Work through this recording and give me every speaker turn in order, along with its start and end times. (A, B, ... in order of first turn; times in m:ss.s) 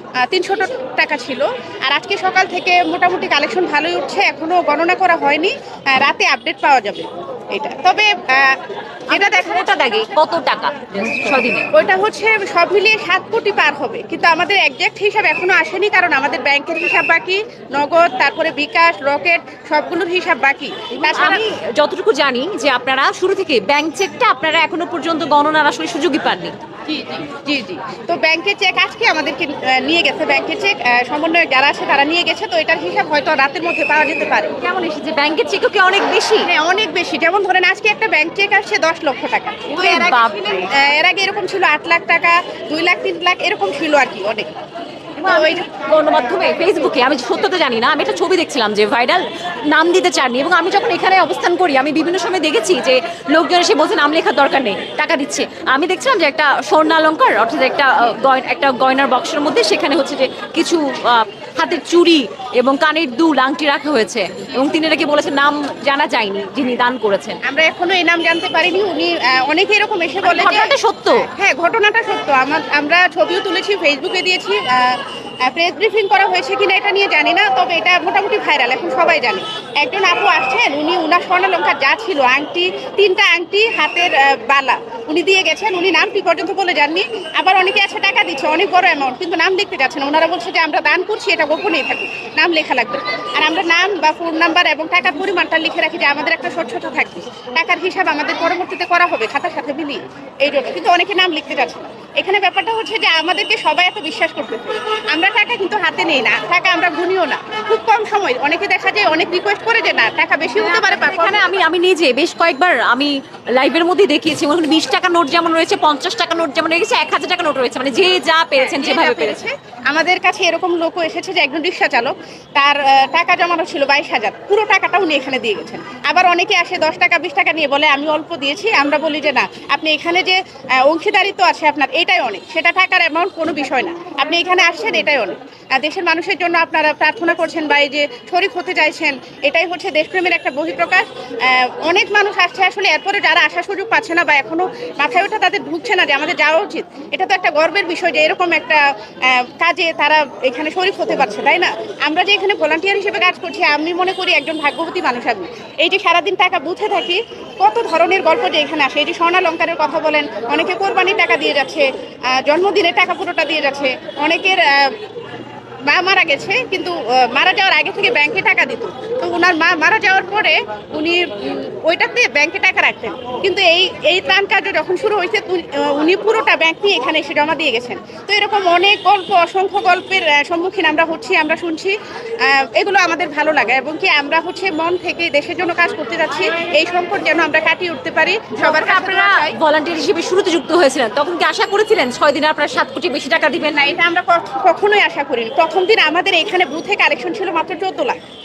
0:00.2-0:09.7 A
0:09.1-0:11.7 B
0:11.7-0:21.4 A
0:21.0-0:26.6 B
0:26.9-0:34.6 A
0:34.6-0:36.5 B
0:36.4-0:44.5 A
0:39.7-0:40.6 B
0:45.2-1:07.4 B
0:45.2-0:45.7 A
1:07.5-1:51.7 A
1:10.2-1:11.3 B
1:50.6-1:59.5 B
1:58.6-2:45.0 A
2:45.8-3:09.6 A
3:08.5-3:13.8 B
3:13.7-3:18.2 A